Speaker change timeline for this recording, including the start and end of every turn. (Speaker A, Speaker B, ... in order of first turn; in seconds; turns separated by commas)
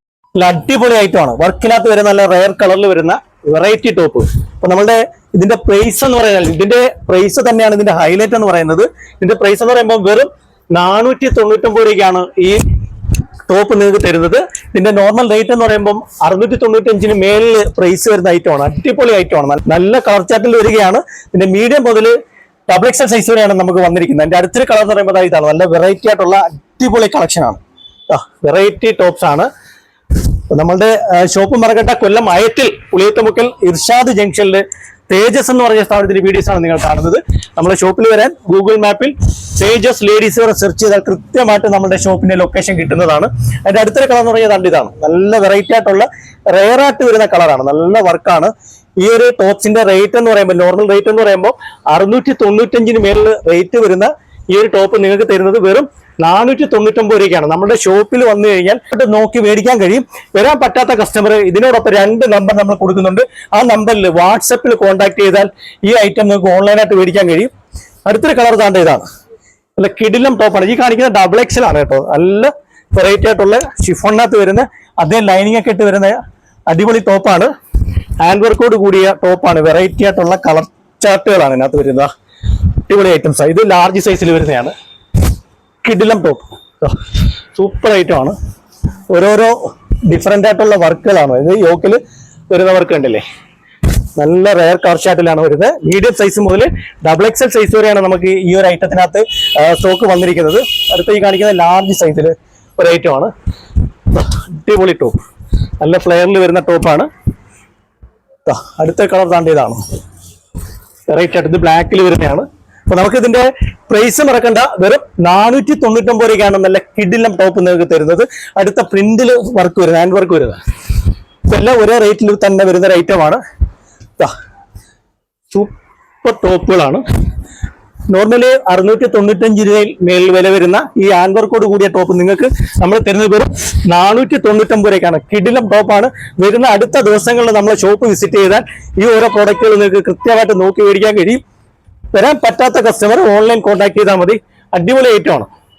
Speaker A: 0.3-12.6, Speaker A: 13.5-22.1, Speaker A: 22.7-29.5, Speaker A: 30.5-67.5, Speaker A: 68.1-69.1, Speaker A: 69.8-77.5, Speaker A: 78.2-82.1, Speaker A: 82.8-84.8, Speaker A: 85.8-87.0, Speaker A: 87.5-88.4, Speaker A: 89.1-93.2, Speaker A: 94.2-103.3, Speaker A: 104.1-105.2, Speaker A: 105.8-107.1, Speaker A: 108.5-109.8, Speaker A: 111.1-120.6, Speaker A: 121.5-123.4, Speaker A: 125.5-127.0, Speaker A: 128.1-141.4, Speaker A: 142.1-145.5